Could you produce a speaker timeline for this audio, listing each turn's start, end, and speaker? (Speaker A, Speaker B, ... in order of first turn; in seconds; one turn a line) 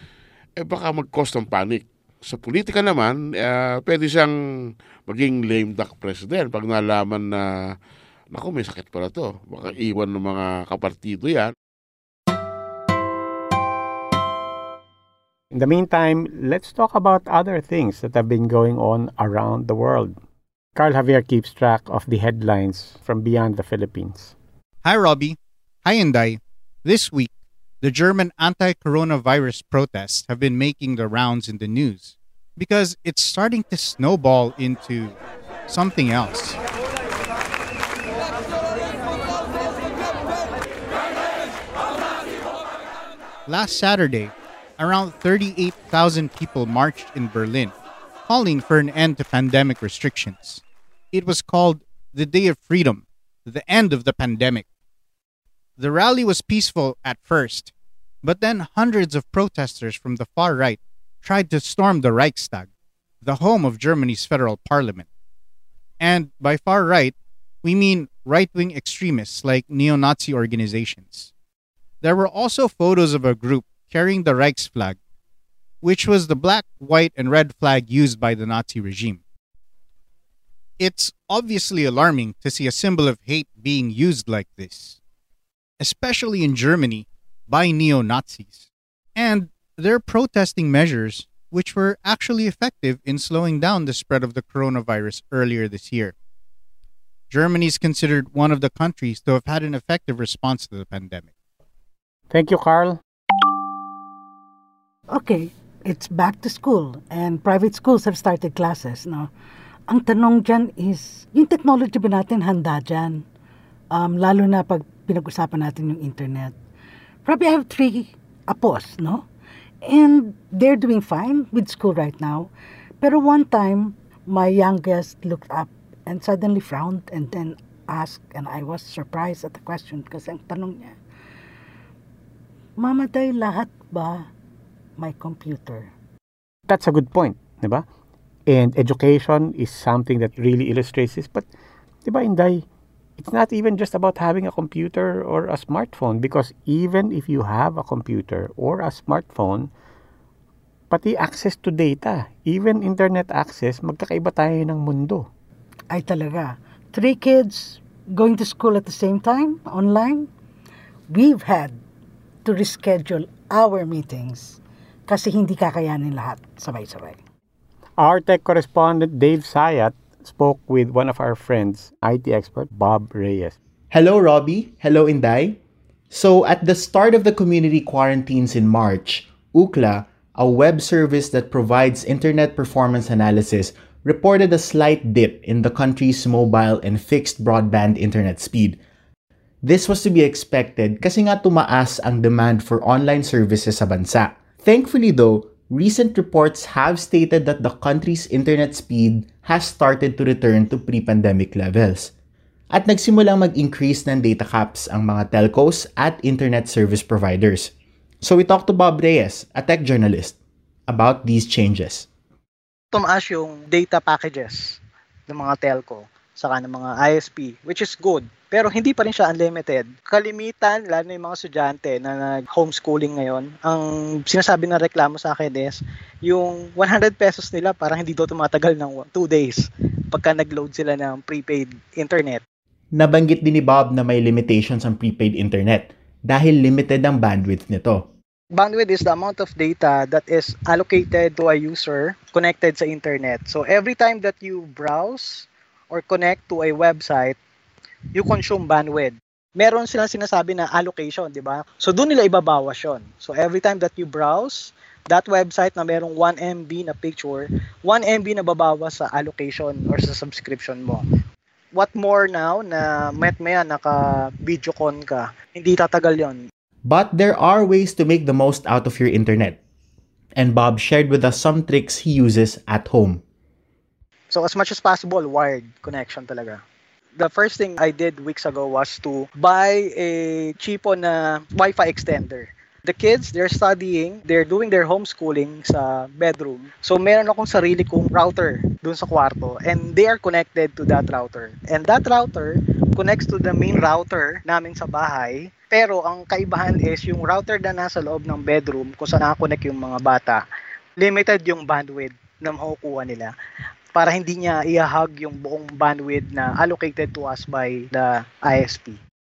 Speaker A: 0.6-4.3
Speaker A: 5.1-7.7
Speaker A: 8.3-11.5
Speaker B: 15.5-20.1
Speaker B: 20.8-24.3
Speaker C: 24.8-35.1
Speaker C: 35.7-36.6
Speaker C: 43.5-47.7
Speaker C: 48.3-54.6
Speaker C: 55.8-62.7
Speaker C: 63.2-65.1
Speaker C: 66.0-71.3
Speaker C: 72.0-75.0
Speaker C: 75.8-79.2
Speaker C: 80.8-85.0
Speaker C: 85.8-88.6
Speaker C: 89.2-96.1
Speaker C: 97.3-101.3
Speaker B: 102.3-103.0
Speaker D: 105.1-109.3
Speaker D: 109.9-113.2
Speaker D: 113.9-116.5
Speaker D: 117.2-119.2
Speaker D: 119.8-122.5
Speaker D: 123.0-130.9
Speaker D: 132.8-134.3
Speaker D: 135.0-135.9
Speaker B: 136.7-137.8
Speaker B: 138.5-141.5
Speaker B: 142.0-142.6
Speaker B: 143.2-149.7
Speaker B: 150.9-155.3
Speaker D: 155.9-160.3
Speaker D: 161.1-161.8
Speaker D: 162.4-167.2
Speaker B: 168.0-173.6
Speaker E: 173.9-175.6
Speaker E: 176.1-188.8
Speaker E: 189.6-202.1
Speaker E: 202.7-207.7
Speaker E: 208.2-210.3
Speaker E: 210.9-212.1
Speaker F: 212.9-214.8
Speaker F: 215.3-232.4
Speaker E: 232.9-238.1
Speaker F: 238.5-247.4
Speaker F: 248.1-261.0
Speaker F: 261.7-266.4
Speaker E: 266.9-269.6
Speaker E: 270.4-273.2
Speaker F: 274.3-276.6
Speaker F: 277.2-300.4
Speaker F: 301.0-303.3
Speaker F: 303.9-309.0